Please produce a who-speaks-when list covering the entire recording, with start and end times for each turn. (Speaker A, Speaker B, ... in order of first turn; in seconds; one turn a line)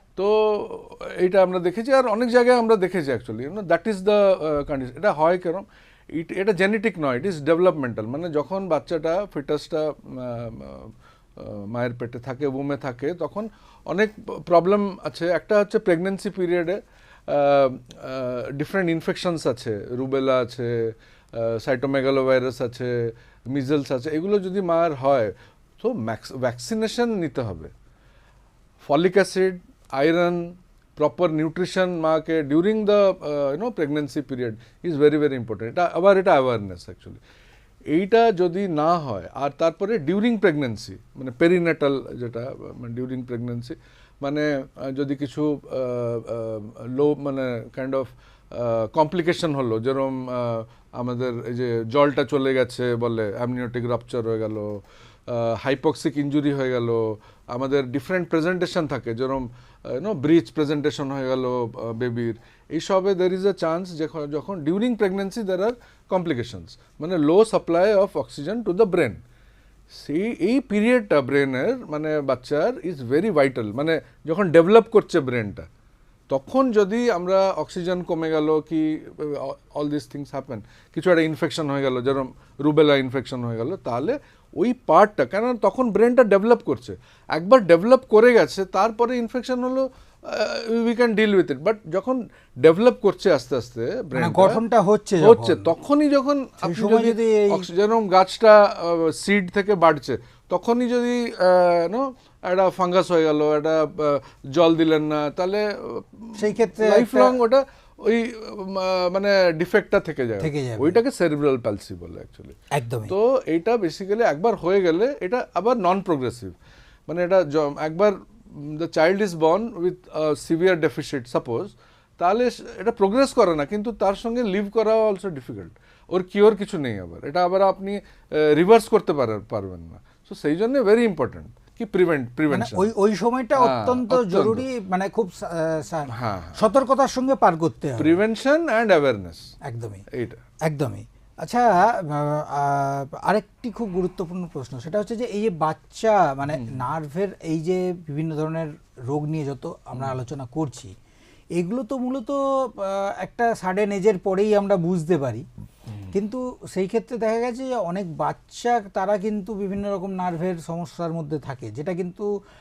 Speaker A: 0.1-27.7
Speaker A: 28.8-37.2
Speaker A: 37.9-69.2
Speaker A: 69.9-75.7
Speaker A: 76.3-94.6
Speaker B: 94.1-95.7
Speaker A: 95.2-112.5
Speaker B: 96.6-97.7
Speaker B: 106.4-107.4
Speaker B: 110.4-111.0
Speaker B: 112.7-113.1
Speaker A: 113.1-116.5
Speaker A: 117.1-132.9
Speaker B: 132.5-138.2
Speaker A: 133.6-134.7
Speaker A: 136.1-136.6
Speaker A: 138.0-139.5
Speaker B: 139.6-140.0
Speaker A: 140.1-140.4
Speaker B: 140.6-150.9
Speaker A: 146.5-146.8
Speaker A: 149.9-150.2
Speaker B: 151.5-155.4
Speaker A: 155.9-156.1
Speaker B: 156.1-162.3